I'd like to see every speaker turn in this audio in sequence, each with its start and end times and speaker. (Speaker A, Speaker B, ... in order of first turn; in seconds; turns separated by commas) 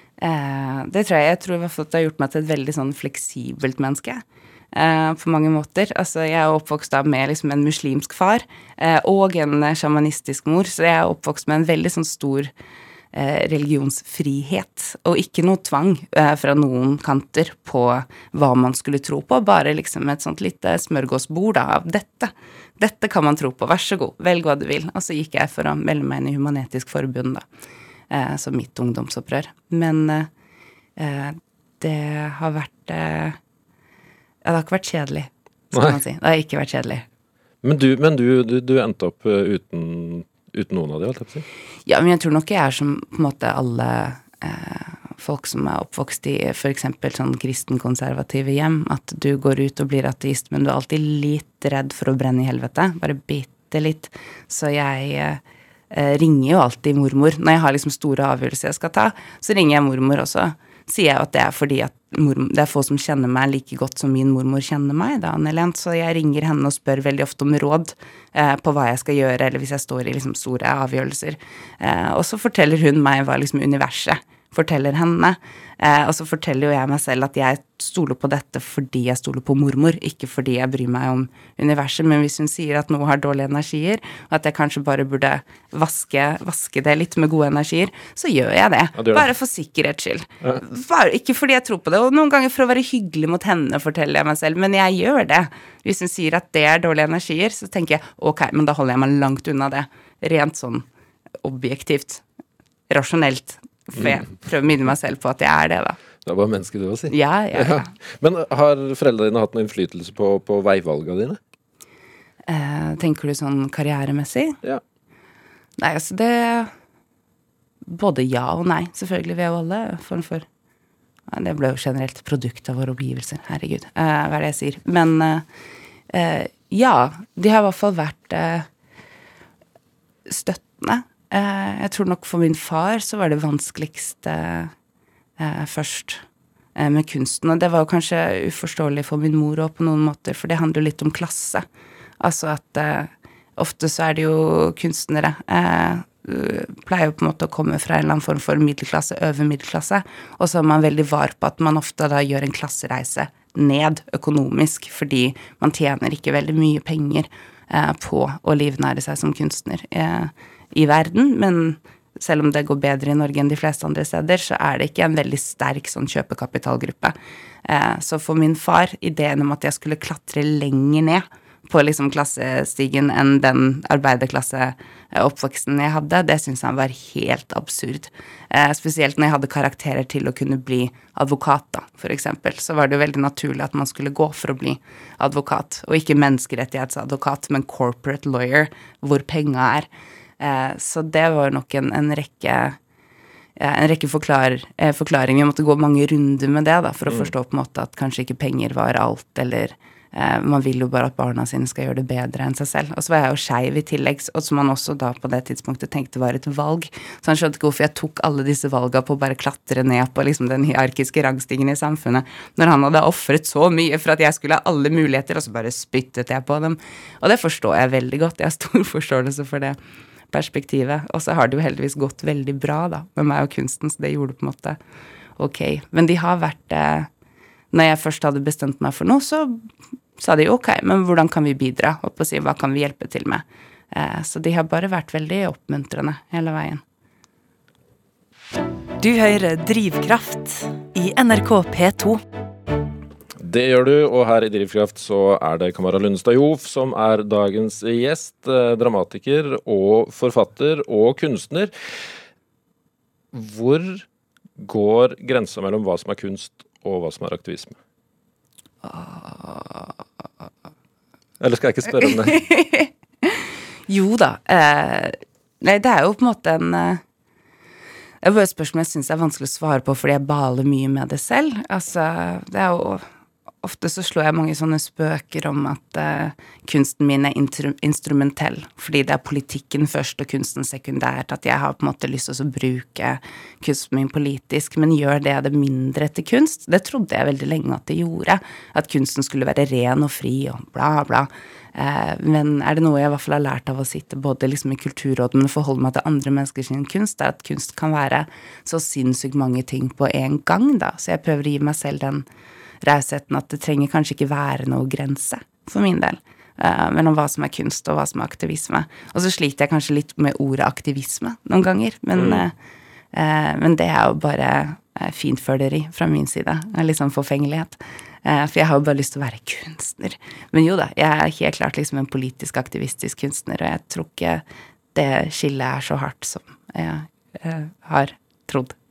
Speaker A: 0.2-12.5, Speaker A: 13.1-27.4, Speaker A: 28.1-30.3, Speaker A: 31.0-33.4, Speaker A: 34.4-37.0, Speaker B: 35.7-36.0, Speaker B: 37.6-41.4, Speaker A: 41.9-100.8, Speaker B: 89.0-89.2, Speaker A: 101.4-102.2, Speaker A: 102.9-106.0, Speaker B: 106.2-111.4, Speaker A: 107.1-107.9, Speaker A: 112.5-114.6, Speaker A: 115.8-116.7, Speaker A: 117.9-120.5, Speaker A: 121.3-125.5, Speaker A: 126.1-128.7, Speaker A: 130.2-134.7, Speaker A: 135.4-136.2, Speaker A: 136.8-141.7, Speaker A: 142.2-189.9, Speaker A: 190.4-192.8, Speaker A: 193.6-219.8, Speaker A: 220.3-224.8, Speaker A: 225.4-227.1, Speaker A: 227.7-236.8, Speaker C: 239.0-242.2, Speaker B: 243.4-251.7, Speaker B: 253.3-254.1, Speaker B: 254.6-257.8, Speaker A: 258.8-259.9, Speaker B: 261.4-262.4, Speaker A: 261.9-267.0, Speaker A: 268.2-273.0, Speaker A: 273.6-302.2, Speaker A: 302.8-312.5, Speaker B: 312.1-312.4, Speaker A: 313.1-324.4, Speaker A: 324.9-328.8